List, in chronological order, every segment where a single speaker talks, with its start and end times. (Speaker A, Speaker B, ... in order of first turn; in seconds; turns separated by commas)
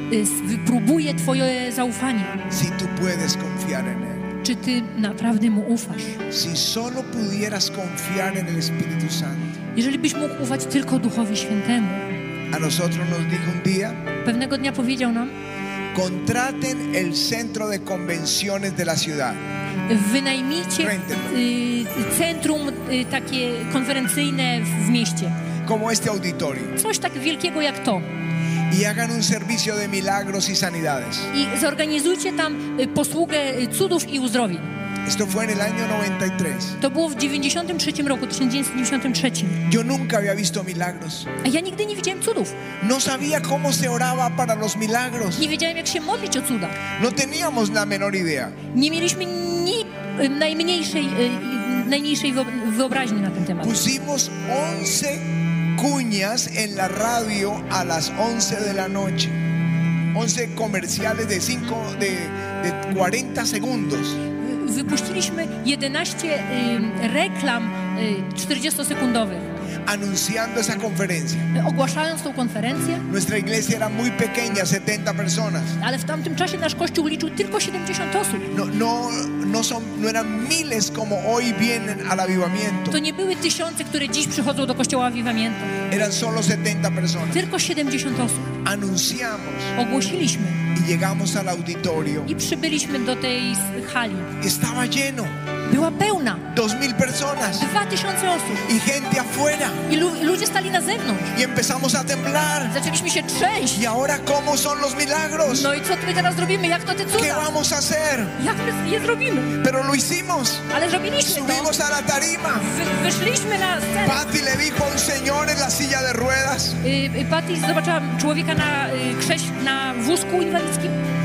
Speaker A: 0.1-2.4, Speaker B: 2.5-4.2, Speaker A: 4.4-6.2, Speaker B: 6.3-9.5, Speaker A: 9.7-12.1, Speaker B: 12.5-14.0, Speaker A: 14.2-15.3, Speaker B: 15.9-19.4, Speaker A: 19.9-25.3, Speaker B: 20.8-21.4, Speaker B: 25.6-26.8, Speaker A: 26.8-28.1, Speaker B: 28.7-31.3, Speaker A: 31.3-34.7, Speaker B: 35.0-36.8, Speaker A: 36.8-39.6, Speaker B: 39.6-41.3, Speaker A: 41.4-42.5, Speaker B: 42.8-45.5, Speaker A: 45.4-46.8, Speaker B: 47.0-48.6, Speaker A: 48.7-53.8, Speaker B: 53.6-59.4, Speaker B: 60.1-64.2, Speaker A: 64.4-69.5, Speaker B: 69.8-71.5, Speaker A: 71.5-73.0, Speaker B: 73.1-75.8, Speaker A: 75.8-78.5, Speaker B: 78.5-83.0, Speaker A: 82.9-85.7, Speaker B: 85.9-87.5, Speaker A: 87.3-88.5, Speaker B: 88.6-89.7, Speaker A: 89.8-90.6, Speaker B: 90.7-92.3, Speaker A: 92.2-94.3, Speaker B: 94.4-95.3, Speaker A: 95.7-96.5, Speaker B: 96.5-97.7, Speaker A: 97.5-98.7, Speaker B: 98.7-99.8, Speaker A: 99.9-101.3, Speaker B: 101.3-102.7, Speaker A: 102.7-103.9, Speaker B: 103.7-105.7, Speaker A: 105.4-107.5, Speaker B: 107.1-108.3, Speaker A: 108.4-109.6, Speaker B: 109.6-110.7, Speaker A: 110.7-111.7, Speaker B: 111.2-112.7, Speaker A: 112.6-114.2, Speaker B: 114.0-116.8, Speaker A: 116.8-121.0